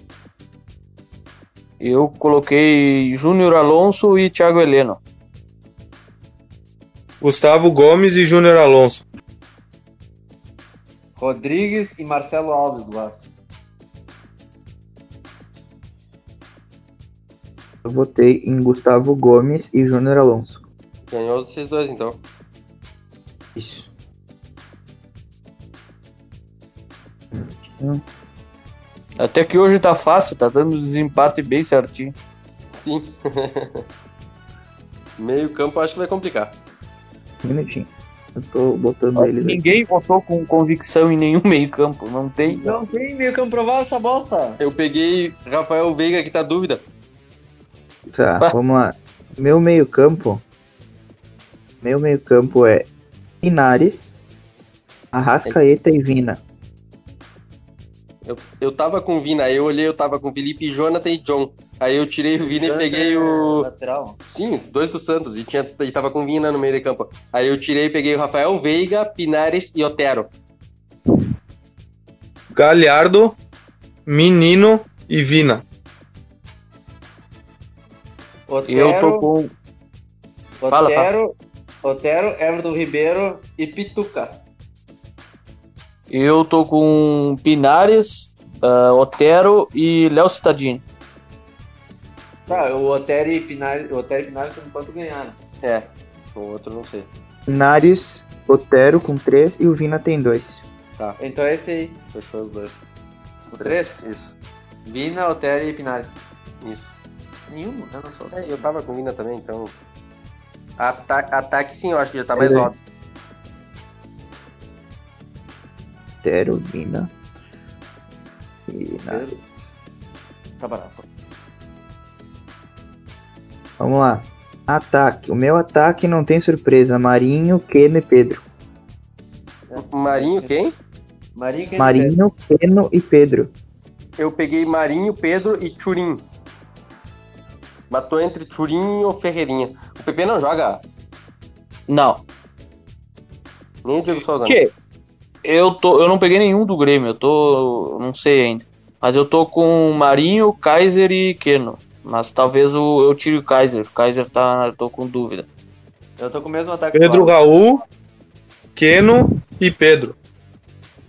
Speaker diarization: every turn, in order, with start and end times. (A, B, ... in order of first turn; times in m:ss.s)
0:01.8-0:05.0 A
0:07.2-0:09.0 B
0:11.2-0:13.2 C
0:17.8-0:20.6 D
0:21.1-0:22.2 E
0:23.5-0:23.9 D
0:27.3-0:28.0 D
0:29.2-0:32.1 A
0:32.8-0:33.8 E
0:35.2-0:36.5 E
0:37.4-0:39.6 D
0:39.2-0:42.8 A
0:42.4-0:44.6 C
0:44.6-0:46.8 E
0:48.1-0:50.4 D
0:51.8-0:52.9 D
0:53.4-0:54.2 D
0:55.1-0:56.4 D
0:58.2-1:03.6 E
1:02.4-1:04.2 C
1:04.3-1:10.3 E
1:12.5-1:13.4 B
1:14.1-1:15.6 B
1:18.5-1:19.3 C
1:18.7-1:19.5 A
1:20.6-1:24.4 C
1:20.7-1:21.1 A
1:26.1-1:30.8 A
1:32.5-1:35.4 C
1:35.6-1:37.1 E
1:37.5-1:40.6 D
1:41.2-1:42.0 C
1:42.1-1:42.8 E
1:43.5-1:44.0 C
1:43.6-1:44.3 E
1:44.8-1:46.2 C
1:46.6-1:46.9 E
1:47.5-1:48.7 C
1:48.3-1:49.7 E
1:50.8-1:52.8 E
1:52.3-1:52.7 D
1:56.2-1:57.1 D
1:58.7-1:59.7 D
1:59.1-1:59.4 C
2:00.6-2:01.0 C
2:03.8-2:08.4 D
2:09.7-2:10.6 C
2:09.8-2:10.7 E
2:11.3-2:12.2 C
2:11.8-2:13.5 D
2:14.2-2:16.2 E
2:17.9-2:20.8 E
2:21.9-2:22.2 A
2:23.8-2:24.6 E
2:24.4-2:24.7 A
2:25.4-2:35.5 A
2:36.2-2:37.4 C
2:36.9-2:37.8 B
2:38.8-2:40.2 B